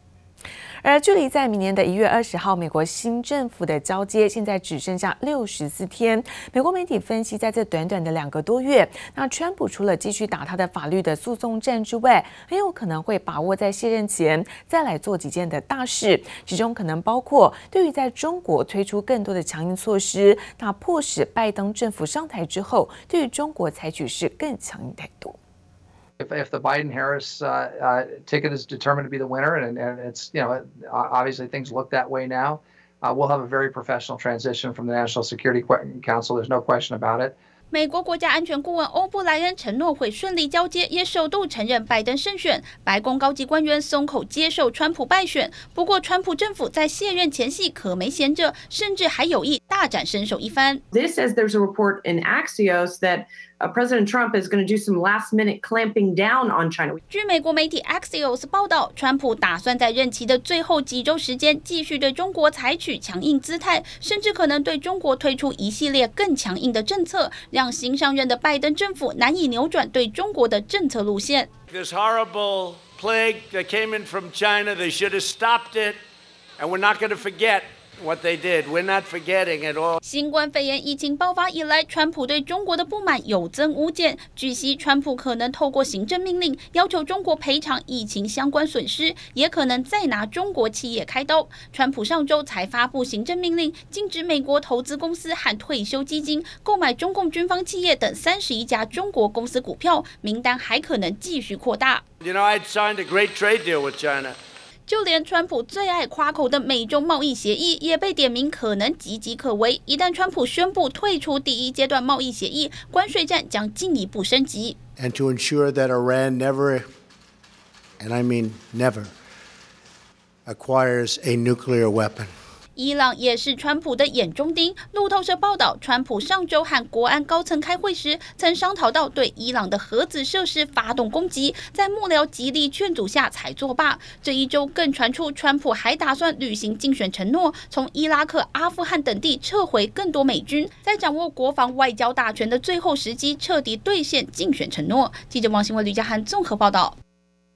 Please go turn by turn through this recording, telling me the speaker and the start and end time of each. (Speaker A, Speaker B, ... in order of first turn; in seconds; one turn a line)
Speaker A: 0.8-25.4
Speaker B: 26.2-37.3
Speaker C: 37.7-50.8
Speaker D: 50.9-57.0
Speaker C: 57.1-71.5
Speaker E: 71.7-76.0
Speaker E: 76.6-79.9
Speaker C: 80.0-102.0
Speaker E: 102.2-104.3
Speaker C: 104.9-114.8
Speaker F: 115.0-116.9
Speaker F: 118.0-119.1
Speaker F: 120.5-122.3
Speaker C: 122.8-146.9